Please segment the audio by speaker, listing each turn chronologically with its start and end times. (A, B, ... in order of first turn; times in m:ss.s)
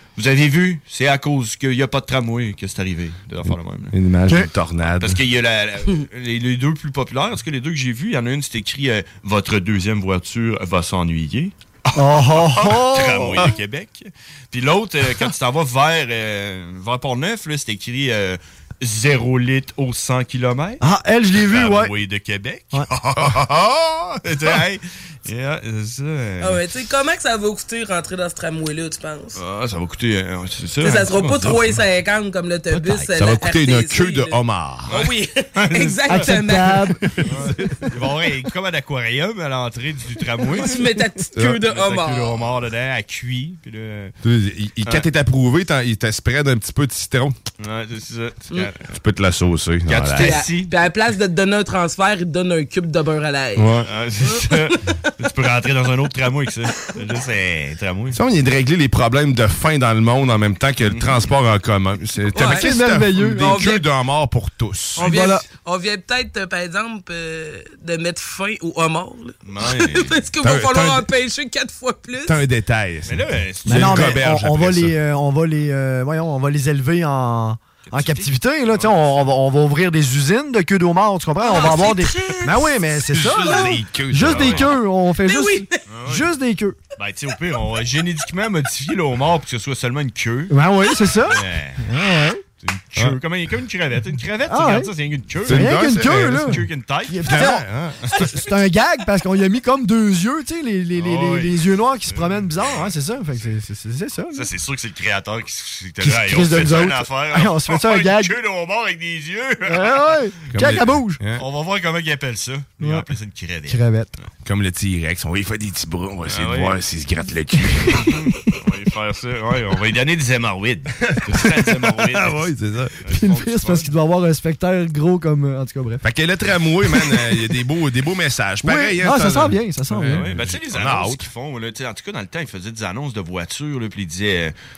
0:00.1-0:03.9 A
0:03.9-0:05.2 B
0:04.8-0:20.8 A
0:11.9-0:13.5 C
0:20.8-0:21.9 C
0:21.4-0:23.5 A
0:23.2-0:24.2 B
0:24.2-0:26.6 A
0:26.4-0:29.4 D
0:29.3-0:31.8 A
0:30.8-0:34.4 D
0:32.7-0:33.1 A
0:33.1-0:35.0 B
0:34.9-0:36.4 A
0:34.9-0:36.9 D
0:36.1-0:37.3 C
0:37.2-0:40.9 A
0:40.4-0:42.4 D
0:41.6-0:44.1 A
0:44.2-0:47.4 B
0:47.6-0:48.9 A
0:48.9-0:50.4 B
0:49.8-0:50.7 A
0:50.2-0:54.8 D
0:53.6-0:53.9 B
0:53.8-0:58.2 A
0:58.1-1:05.1 B
1:00.8-1:01.3 A
1:02.4-1:02.6 D
1:02.4-1:03.7 C
1:03.4-1:03.8 D
1:05.0-1:12.4 D
1:05.0-1:05.4 C
1:09.4-1:10.1 A
1:10.4-1:11.0 B
1:12.2-1:14.9 B
1:13.0-1:14.3 A
1:13.6-1:26.8 C
1:17.9-1:19.3 A
1:21.4-1:22.8 D
1:23.1-1:24.7 B
1:24.2-1:24.8 A
1:25.2-1:25.8 D
1:25.9-1:26.3 A
1:27.0-1:30.5 A
1:30.5-1:32.4 C
1:31.2-1:31.8 A
1:32.6-1:38.3 A
1:34.5-1:34.9 C
1:35.4-1:36.6 B
1:35.4-1:37.6 C
1:37.2-1:38.1 B
1:38.1-1:44.5 C
1:41.0-1:42.9 A
1:44.3-1:50.2 A
1:46.0-1:48.4 C
1:49.7-1:51.2 C
1:50.5-1:51.4 B
1:51.3-1:54.3 A
1:52.8-1:53.1 C
1:53.7-1:54.1 C
1:54.4-1:58.2 B
1:56.3-1:56.8 A
1:58.1-2:03.9 A
2:01.1-2:03.0 B
2:03.1-2:06.0 C
2:06.0-2:11.2 B
2:08.6-2:10.3 C
2:10.1-2:14.5 A